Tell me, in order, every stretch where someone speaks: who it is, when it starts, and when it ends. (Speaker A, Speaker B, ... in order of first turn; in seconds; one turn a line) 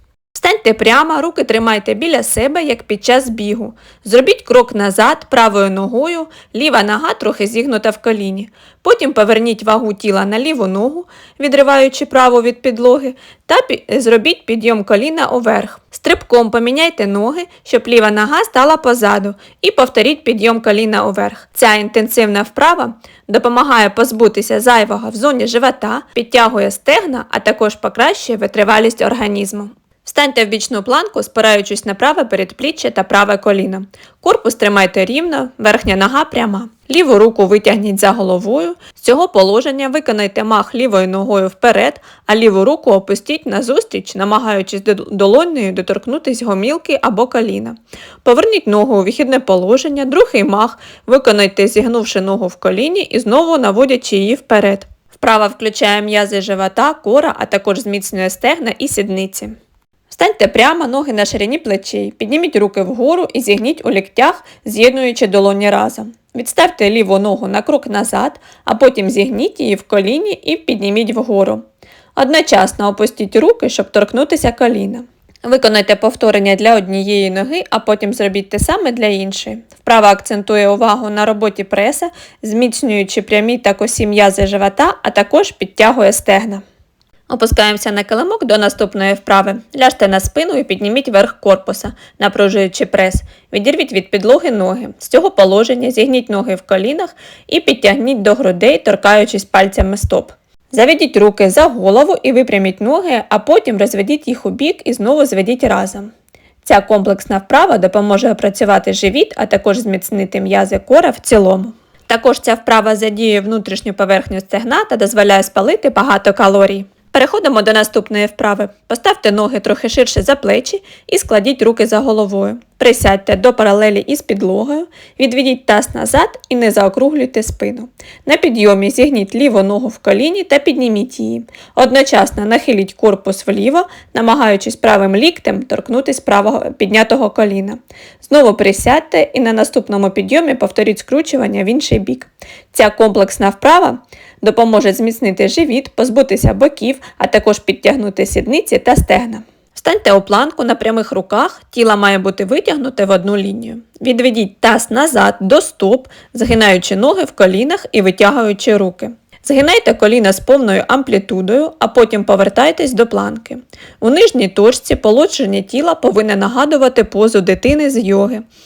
Speaker A: 0.4-59.6
Speaker A: 60.1-71.6
Speaker A: 72.2-86.6
Speaker A: 87.3-106.1
Speaker A: 106.6-168.4